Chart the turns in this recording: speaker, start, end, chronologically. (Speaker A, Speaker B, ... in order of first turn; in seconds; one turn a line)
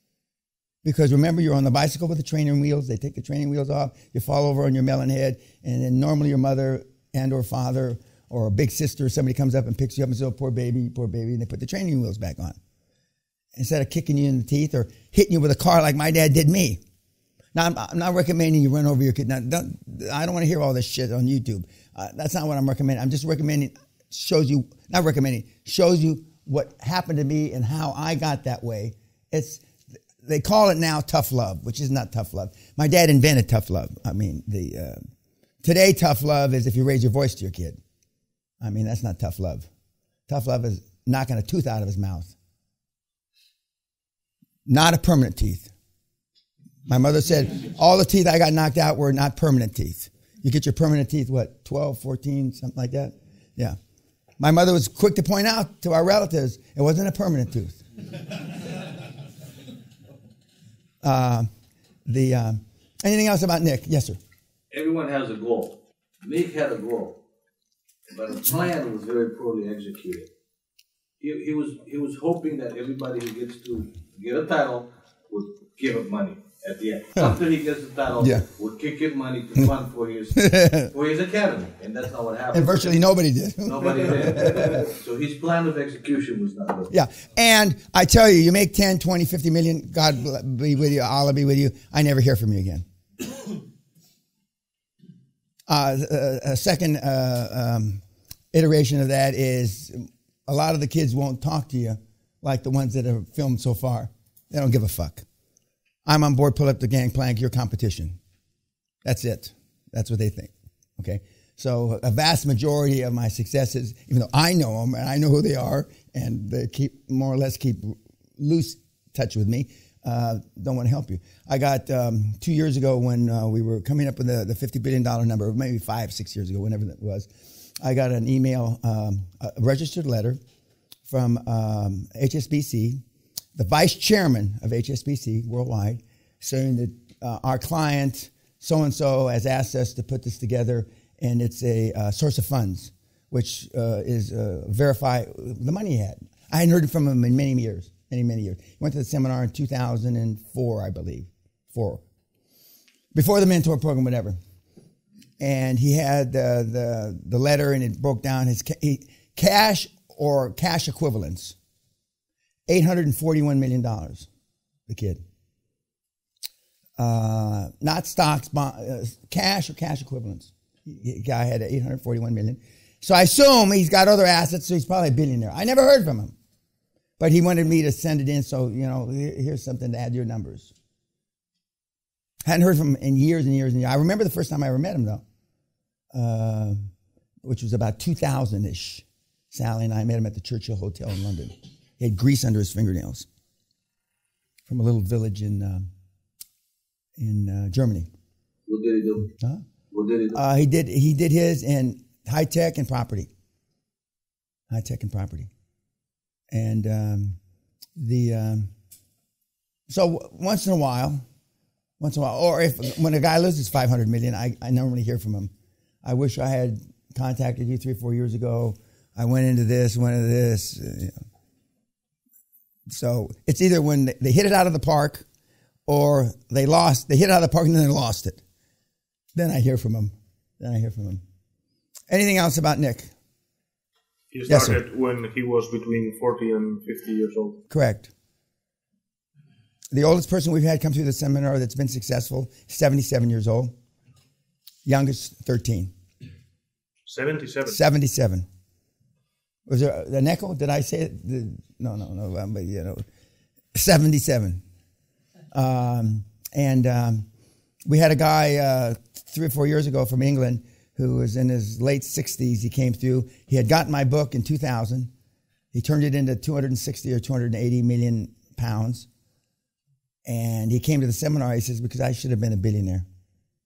Speaker A: 0.8-12.6
Speaker A: 13.6-16.8
Speaker A: 17.5-29.6
Speaker A: 30.2-35.0
Speaker A: 35.6-37.8
Speaker A: 38.6-39.7
Speaker A: 40.3-42.3
Speaker A: 44.6-45.7
Speaker A: 46.9-53.8
Speaker A: 54.4-57.8
Speaker A: 61.0-61.5
Speaker A: 62.0-64.2
Speaker B: 64.7-67.2
Speaker B: 68.1-70.3
Speaker B: 71.2-83.0
Speaker A: 78.2-78.4
Speaker A: 80.3-80.9
Speaker A: 82.5-84.8
Speaker B: 83.6-86.9
Speaker A: 86.9-92.8
Speaker A: 95.7-105.2
Speaker A: 106.0-108.2
Speaker A: 109.0-127.3
Speaker A: 127.8-130.4
Speaker A: 131.1-133.0
Speaker A: 133.5-152.0
Speaker A: 153.1-154.3
Speaker A: 155.4-161.5
Speaker A: 162.7-164.3
Speaker A: 164.9-165.2
Speaker A: 167.0-176.3
Speaker A: 177.2-180.7
Speaker A: 182.4-185.2
Speaker A: 186.1-186.9
Speaker A: 187.4-193.3
Speaker A: 194.7-195.9
Speaker A: 197.2-198.1
Speaker B: 198.7-199.3
Speaker B: 199.9-200.4
Speaker A: 200.3-203.3
Speaker A: 204.7-205.5
Speaker A: 206.5-207.4
Speaker A: 207.9-208.7
Speaker A: 209.9-211.2
Speaker A: 212.0-215.5
Speaker A: 216.0-221.2
Speaker A: 222.9-225.2
Speaker A: 225.9-228.4
Speaker A: 229.3-231.2
Speaker A: 232.1-233.1
Speaker C: 234.3-237.6
Speaker A: 234.4-234.8
Speaker A: 237.7-238.1
Speaker A: 239.9-243.7
Speaker A: 244.8-245.9
Speaker C: 247.1-247.8
Speaker A: 247.6-248.4
Speaker A: 249.7-253.1
Speaker A: 253.7-254.6
Speaker A: 255.5-257.3
Speaker A: 257.8-265.1
Speaker A: 265.7-269.1
Speaker A: 270.2-273.1